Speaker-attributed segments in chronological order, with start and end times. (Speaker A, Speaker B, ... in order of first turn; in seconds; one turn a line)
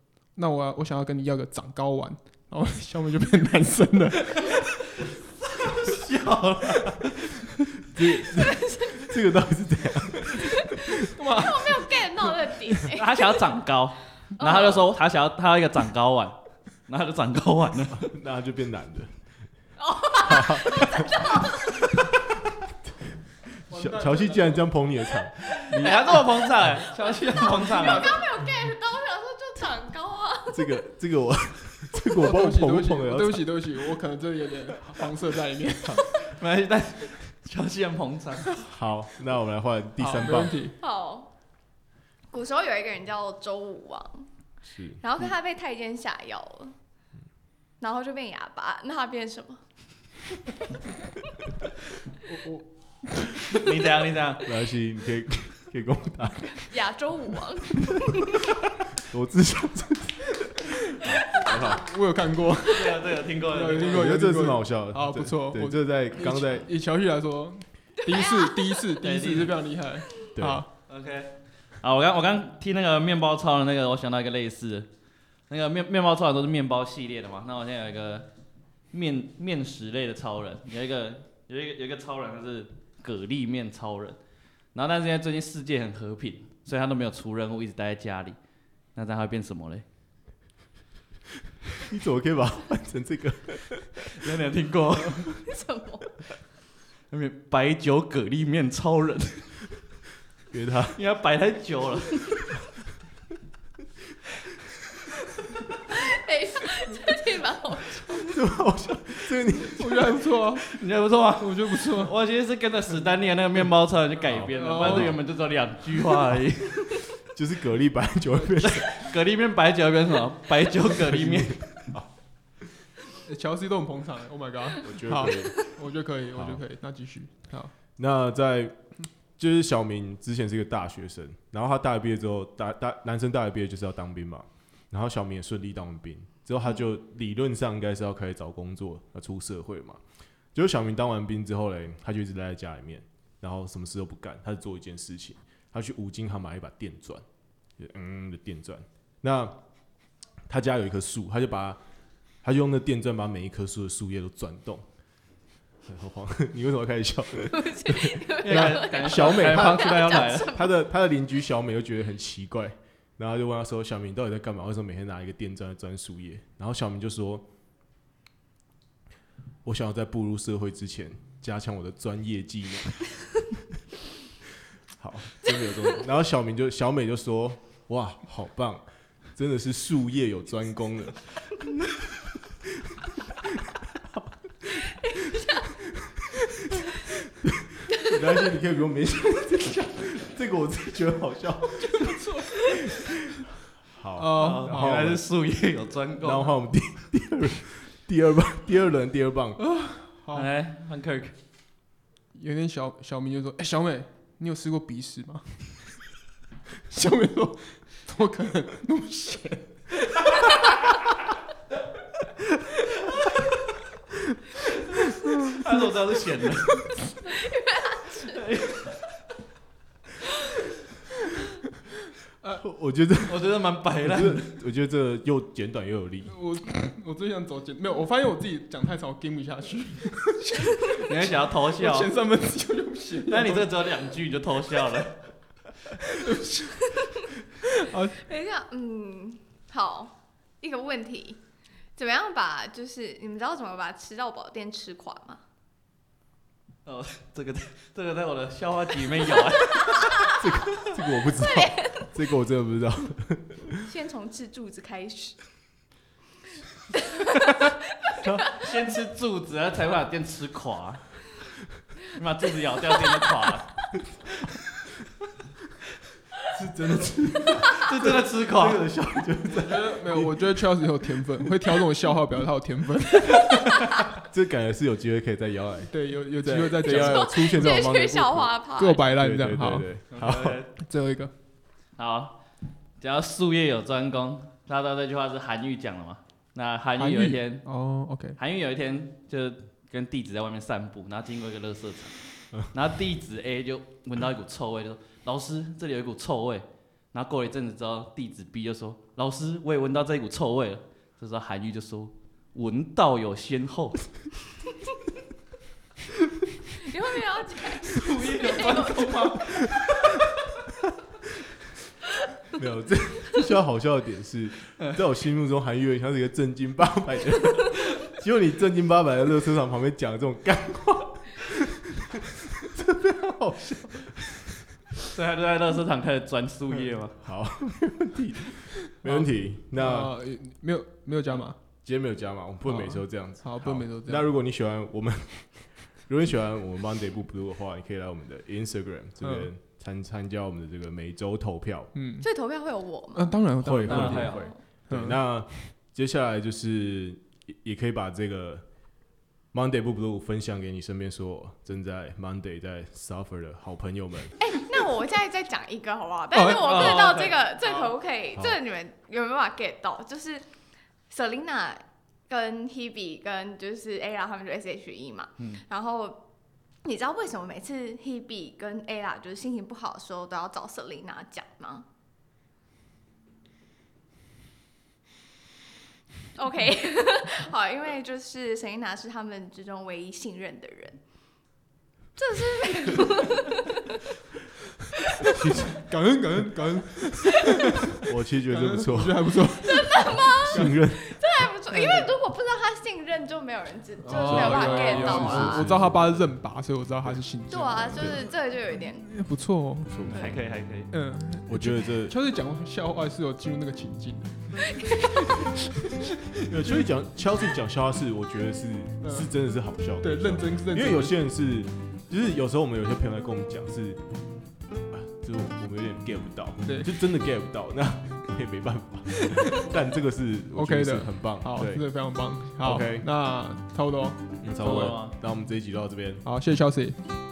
Speaker A: 0.3-4.6
Speaker B: 5.6-7.4
Speaker C: 7.9-11.0
Speaker D: 8.2-9.1
Speaker D: 10.4-10.8
Speaker A: 11.1-12.3
Speaker D: 11.4-13.4
Speaker B: 12.9-16.4
Speaker D: 14.4-14.8
Speaker B: 16.9-18.1
Speaker C: 18.0-19.1
Speaker D: 19.8-21.9
Speaker C: 20.2-21.7
Speaker C: 23.7-26.1
Speaker A: 23.7-24.6
Speaker B: 25.7-28.2
Speaker D: 25.8-30.7
Speaker A: 27.3-28.2
Speaker C: 30.5-33.8
Speaker A: 32.1-36.1
Speaker B: 36.3-38.4
Speaker C: 38.6-40.6
Speaker A: 40.0-40.7
Speaker D: 40.8-41.3
Speaker D: 42.3-44.3
Speaker C: 44.6-45.0
Speaker D: 45.0-46.7
Speaker D: 47.8-49.6
Speaker A: 52.2-53.5
Speaker B: 53.5-54.5
Speaker C: 54.4-56.7
Speaker D: 56.5-58.3
Speaker C: 59.0-61.9
Speaker A: 61.5-70.7
Speaker B: 62.7-64.1
Speaker C: 63.9-66.7
Speaker D: 68.0-68.8
Speaker B: 69.0-69.6
Speaker C: 70.4-70.6
Speaker B: 70.9-74.9
Speaker B: 75.5-78.3
Speaker B: 78.9-84.2
Speaker B: 84.7-88.4
Speaker B: 88.9-89.8
Speaker C: 91.8-94.0
Speaker B: 94.1-95.3
Speaker D: 95.4-96.2
Speaker B: 97.1-99.5
Speaker C: 100.5-101.0
Speaker B: 100.9-102.2
Speaker D: 105.9-108.4
Speaker C: 108.2-110.2
Speaker A: 109.8-110.7
Speaker B: 110.6-117.0
Speaker A: 111.4-112.1
Speaker C: 114.3-115.2
Speaker A: 114.5-115.2
Speaker C: 117.3-119.1
Speaker B: 118.6-121.8
Speaker C: 121.0-122.1
Speaker A: 123.2-127.7
Speaker C: 124.8-125.6
Speaker C: 126.3-126.6
Speaker C: 128.0-128.8
Speaker C: 129.4-140.0
Speaker C: 140.5-147.2
Speaker C: 147.8-149.6
Speaker C: 150.5-151.8
Speaker C: 152.4-154.8
Speaker C: 155.8-167.4
Speaker D: 157.5-160.7
Speaker B: 158.4-160.5
Speaker C: 169.6-173.1
Speaker C: 174.9-181.3
Speaker C: 183.4-184.9
Speaker D: 185.0-185.7
Speaker C: 187.4-192.3
Speaker A: 191.8-193.0
Speaker C: 193.9-195.2
Speaker A: 194.2-194.9
Speaker B: 194.3-196.5
Speaker C: 196.2-199.6
Speaker A: 199.6-200.5
Speaker B: 200.3-201.3
Speaker A: 202.3-205.9
Speaker A: 206.9-210.6
Speaker B: 215.3-217.0
Speaker D: 217.2-218.4
Speaker B: 218.2-219.0
Speaker C: 222.6-223.4
Speaker B: 223.3-224.5
Speaker C: 224.0-226.3
Speaker A: 226.2-233.7
Speaker B: 231.1-232.1
Speaker B: 233.3-235.3
Speaker A: 236.0-236.8
Speaker A: 237.6-238.2
Speaker D: 238.1-241.4
Speaker D: 241.9-245.4
Speaker B: 246.8-250.3
Speaker C: 250.3-253.8
Speaker D: 251.4-252.1
Speaker D: 253.8-255.4
Speaker D: 257.1-257.4
Speaker D: 258.1-258.4
Speaker C: 258.2-258.5
Speaker B: 258.6-261.0
Speaker B: 262.1-263.8
Speaker C: 266.4-270.6
Speaker B: 267.8-268.8
Speaker A: 269.5-273.6
Speaker C: 274.1-280.6
Speaker A: 275.9-277.6
Speaker D: 276.9-279.1
Speaker A: 278.8-279.9
Speaker B: 280.1-280.7
Speaker A: 280.8-281.3
Speaker B: 282.0-282.4
Speaker B: 283.0-287.6
Speaker A: 286.9-288.4
Speaker B: 288.4-304.0
Speaker D: 306.8-309.6
Speaker B: 307.7-309.8
Speaker C: 312.5-324.6
Speaker B: 325.1-327.2
Speaker C: 327.2-330.2
Speaker A: 328.9-331.6
Speaker C: 331.8-341.9
Speaker A: 332.7-334.3
Speaker A: 339.2-339.5
Speaker A: 341.9-342.3
Speaker D: 342.2-343.4
Speaker A: 343.1-345.2
Speaker C: 343.6-348.6
Speaker B: 343.8-344.5
Speaker D: 344.2-344.5
Speaker C: 349.5-354.4
Speaker D: 354.3-360.4
Speaker B: 356.5-357.4
Speaker D: 361.1-366.2
Speaker D: 366.8-371.8
Speaker D: 376.3-381.0
Speaker D: 382.1-383.8
Speaker C: 385.4-385.7
Speaker A: 385.8-390.8
Speaker C: 388.0-389.4
Speaker D: 389.7-395.7
Speaker C: 390.3-391.1
Speaker A: 391.7-392.1
Speaker A: 394.0-400.2
Speaker C: 394.1-396.1
Speaker D: 397.5-399.1
Speaker C: 399.9-400.4
Speaker B: 400.1-400.9
Speaker D: 400.1-400.4
Speaker A: 400.9-406.8
Speaker C: 401.4-402.1
Speaker D: 404.7-405.3
Speaker C: 406.4-414.0
Speaker A: 409.0-409.3
Speaker A: 410.0-411.2
Speaker C: 414.9-421.8
Speaker A: 416.6-416.9
Speaker A: 419.1-419.6
Speaker A: 420.5-424.9
Speaker C: 422.6-423.1
Speaker C: 424.4-426.2
Speaker B: 424.6-425.2
Speaker A: 426.2-427.0